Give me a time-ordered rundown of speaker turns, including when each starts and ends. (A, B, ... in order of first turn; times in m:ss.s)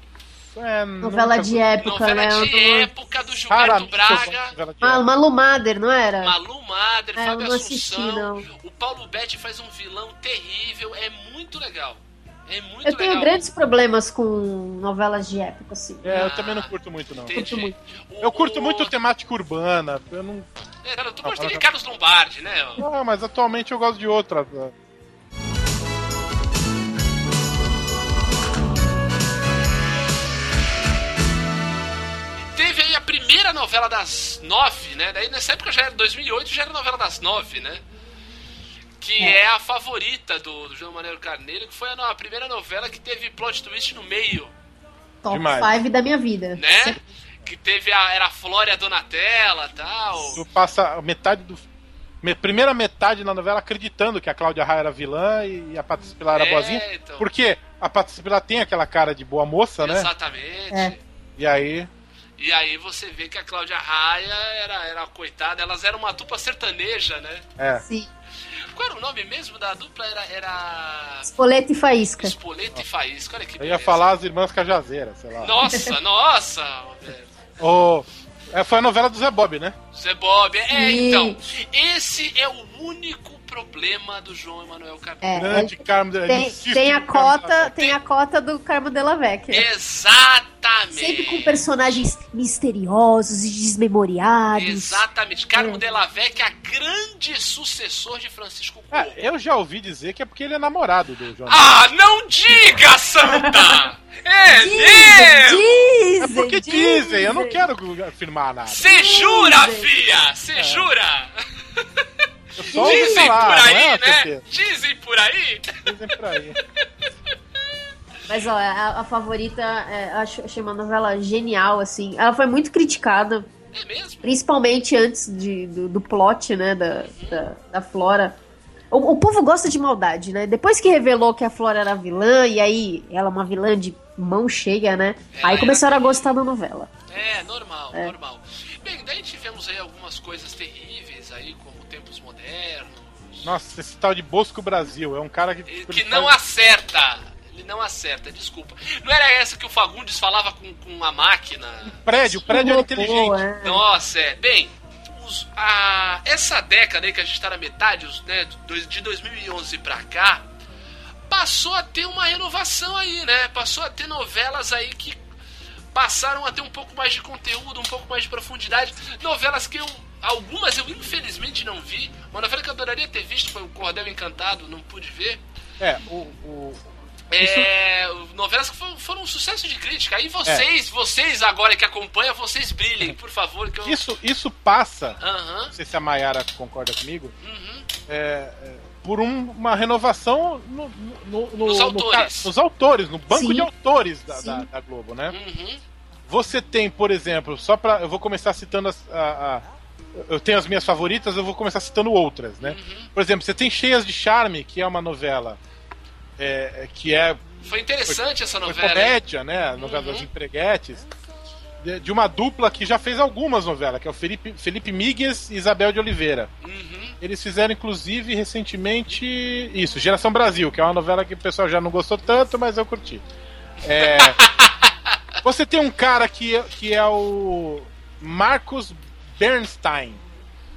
0:00.6-0:01.7 A
0:01.0-0:02.9 B
0:01.8-0:04.5 C
0:03.5-0:05.0 A
0:04.8-0:06.4 B
0:06.2-0:13.4 C
0:07.2-0:08.5 B
0:12.8-0:16.2 B
0:16.0-0:17.4 A
0:16.1-0:16.7 C
0:17.2-0:18.9 C
0:17.3-0:17.7 B
0:18.2-0:20.5 A
0:20.8-0:22.8 C
0:21.2-0:21.6 A
0:22.8-0:24.7 A
0:32.6-0:37.8 C
0:39.0-0:44.5 C
0:45.2-0:47.0 B
0:45.3-0:45.7 A
0:46.6-0:50.4 C
0:50.2-0:51.6 A
0:52.2-1:00.1 A
0:56.3-0:57.3 C
0:59.8-1:01.0 C
1:01.4-1:01.9 A
1:02.4-1:07.4 C
1:07.6-1:07.8 A
1:07.8-1:08.1 B
1:08.7-1:11.3 C
1:11.2-1:12.3 B
1:12.2-1:14.1 C
1:13.6-1:15.6 A
1:15.4-1:17.4 C
1:15.6-1:15.9 B
1:17.6-1:19.8 A
1:19.9-1:25.6 C
1:20.7-1:21.4 B
1:25.2-1:29.7 B
1:25.4-1:27.7 A
1:29.5-1:31.6 C
1:30.9-1:35.8 B
1:34.6-1:39.2 C
1:38.9-1:41.7 A
1:41.5-1:46.0 C
1:43.3-1:43.8 B
1:44.5-1:47.6 B
1:46.2-1:48.8 A
1:48.7-1:52.1 C
1:48.8-1:49.9 B
1:50.6-1:50.9 A
1:52.6-1:54.4 A
1:52.6-1:55.8 C
1:52.7-1:53.4 B
1:55.8-1:56.6 A
1:58.3-2:03.5 B
2:03.7-2:04.3 C
2:04.2-2:08.4 B
2:07.1-2:07.4 C
2:08.9-2:16.9 B
2:15.3-2:16.3 C
2:17.1-2:23.5 C
2:23.4-2:26.3 A
2:25.7-2:32.4 C
2:31.9-2:33.4 A
2:32.5-2:33.8 B
2:33.6-2:40.5 C
2:41.3-2:45.2 C
2:45.9-2:55.4 C
2:55.8-2:56.8 A
2:57.3-3:04.0 C
2:57.4-2:57.7 A
3:03.8-3:05.2 A
3:05.2-3:05.7 C
3:05.7-3:07.3 A
3:07.4-3:07.9 C
3:08.1-3:15.3 A
3:11.6-3:12.5 C
3:13.3-3:13.7 B
3:14.3-3:14.7 B
3:15.3-3:15.8 C
3:16.3-3:25.6 A
3:22.6-3:23.1 C
3:26.4-3:27.4 A
3:27.6-3:29.2 C
3:28.1-3:31.1 A
3:29.8-3:30.3 C
3:31.8-3:36.5 A
3:36.6-3:37.2 C
3:37.2-3:43.2 A
3:43.8-3:44.4 A
3:43.9-3:44.9 C
3:45.4-3:50.2 A